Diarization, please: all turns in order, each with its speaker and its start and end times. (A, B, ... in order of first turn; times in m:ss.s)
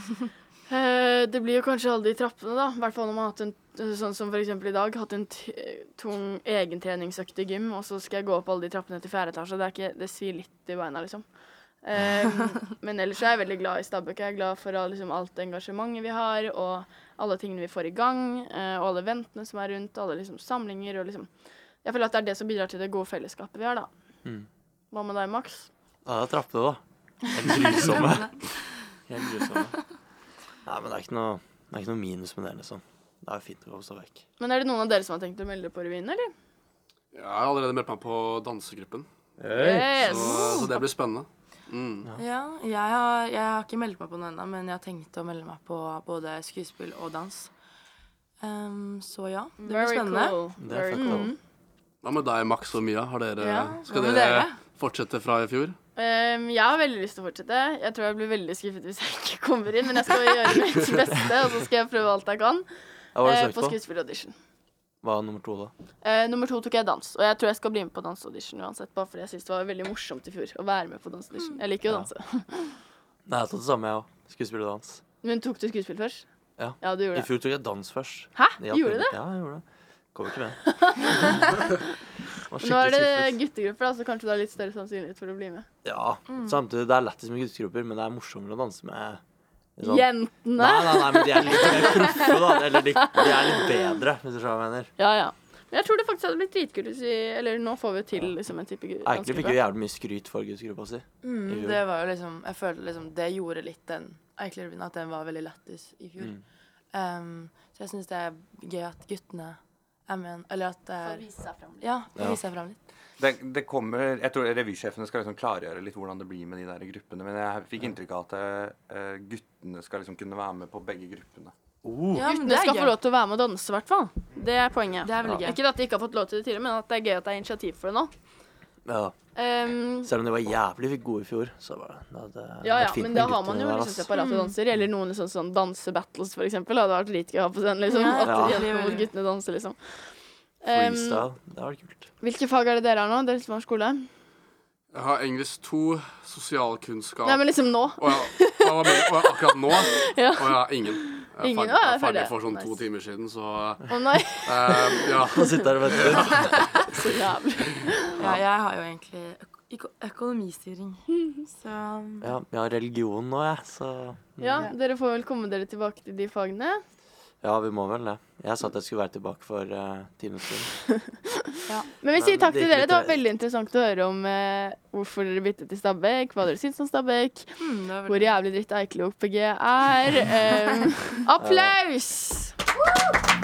0:00.7-0:23.9 A
0:24.9-0:25.7 A
0:26.0-0:28.3 B
0:27.5-0:28.9 C
0:29.1-0:29.8 B
0:30.6-0:34.2 B
0:34.4-0:36.3 A
0:37.1-0:39.1 D
0:39.4-0:40.3 B
0:39.6-0:40.8 A
0:40.0-0:42.1 D
0:40.2-0:40.7 C
0:42.2-0:47.5 C
0:48.4-0:50.4 C
0:49.6-0:51.4 A
0:50.6-0:51.3 B
0:51.0-0:51.2 C
0:52.0-0:55.8 D
0:53.4-0:54.6 C
0:56.0-1:04.3 A
1:03.2-1:03.8 B
1:05.0-1:05.7 B
1:06.0-1:12.8 A
1:11.8-1:12.1 B
1:13.3-1:15.0 B
1:15.2-1:17.3 A
1:16.6-1:21.2 B
1:18.4-1:19.2 A
1:20.8-1:21.8 A
1:22.5-1:23.4 B
1:22.6-1:25.7 A
1:25.8-1:29.2 B
1:26.3-1:26.6 C
1:29.8-1:34.9 B
1:29.8-1:32.4 A
1:33.2-1:33.6 A
1:35.0-1:39.6 A
1:39.0-1:41.8 B
1:41.2-1:46.4 C
1:46.9-1:52.8 C
1:51.0-1:51.9 A
1:53.2-2:01.5 E
2:01.8-2:02.3 B
2:02.1-2:03.0 C
2:02.3-2:08.1 A
2:05.0-2:05.6 C
2:08.9-2:09.2 B
2:09.4-2:10.1 A
2:10.0-2:14.1 B
2:12.6-2:21.2 A
2:14.1-2:14.6 C
2:17.9-2:19.1 C
2:18.2-2:18.6 B
2:20.7-2:22.1 B
2:22.2-2:24.1 A
2:24.9-2:36.2 D
2:27.2-2:28.7 A
2:30.0-2:32.8 A
2:33.9-2:34.8 A
2:35.3-2:36.8 B
2:36.1-2:38.2 A
2:38.2-2:42.3 C
2:42.2-2:44.7 B
2:44.4-2:46.8 A
2:47.4-2:50.8 B
2:52.0-3:02.6 A
2:52.1-2:53.2 B
2:57.6-2:58.3 C
3:01.4-3:01.8 B